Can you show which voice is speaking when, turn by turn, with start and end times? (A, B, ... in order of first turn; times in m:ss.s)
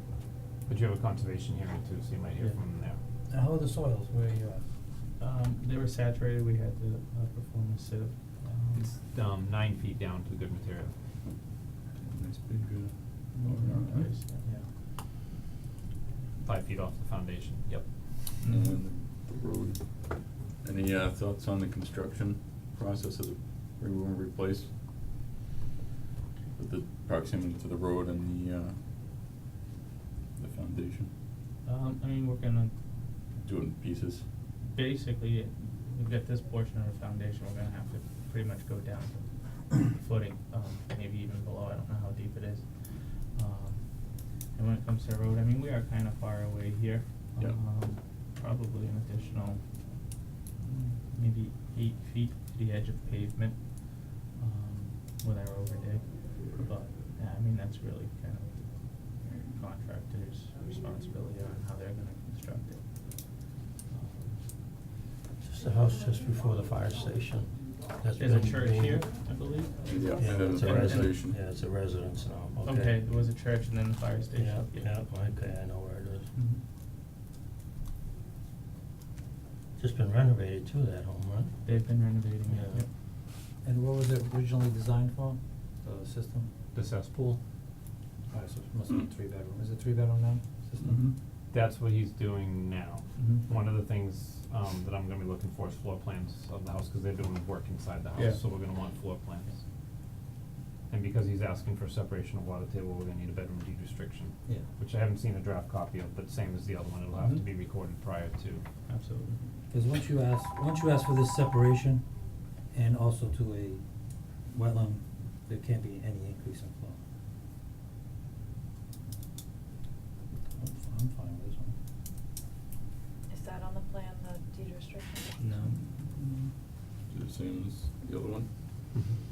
0:00.6-0:03.0 A
0:03.3-0:04.6 B
0:05.2-0:08.9 C
0:08.7-0:10.9 A
0:12.0-0:14.1 D
0:13.3-0:14.5 C
0:14.4-0:14.7 B
0:16.4-0:18.4 A
0:18.4-0:18.8 C
0:18.5-0:24.7 D
0:26.6-0:28.8 D
0:30.4-0:31.1 D
0:31.6-0:33.0 C
0:33.4-0:34.2 D
0:34.6-1:04.4 C
1:05.4-1:09.1 E
1:08.2-1:11.2 C
1:09.8-1:11.4 D
1:10.2-1:13.0 E
1:12.6-1:14.9 C
1:14.3-1:16.3 E
1:16.3-1:16.6 C
1:19.8-1:21.6 E
1:21.6-1:22.9 C
1:22.5-1:22.8 E
1:23.6-1:26.5 B
1:26.7-1:27.4 A
1:28.3-1:31.0 B
1:30.8-1:31.1 D
1:31.5-1:39.6 A
1:33.2-1:33.4 C
1:38.2-1:38.4 C
1:40.9-1:48.6 A
1:47.2-1:47.4 C
1:48.9-1:49.4 C
1:49.7-1:52.0 B
1:52.7-1:53.8 B
1:54.5-1:57.0 B
2:00.6-2:01.7 B
2:03.3-2:05.3 F
2:05.4-2:06.5 C
2:07.1-2:08.5 D
2:08.9-2:09.2 A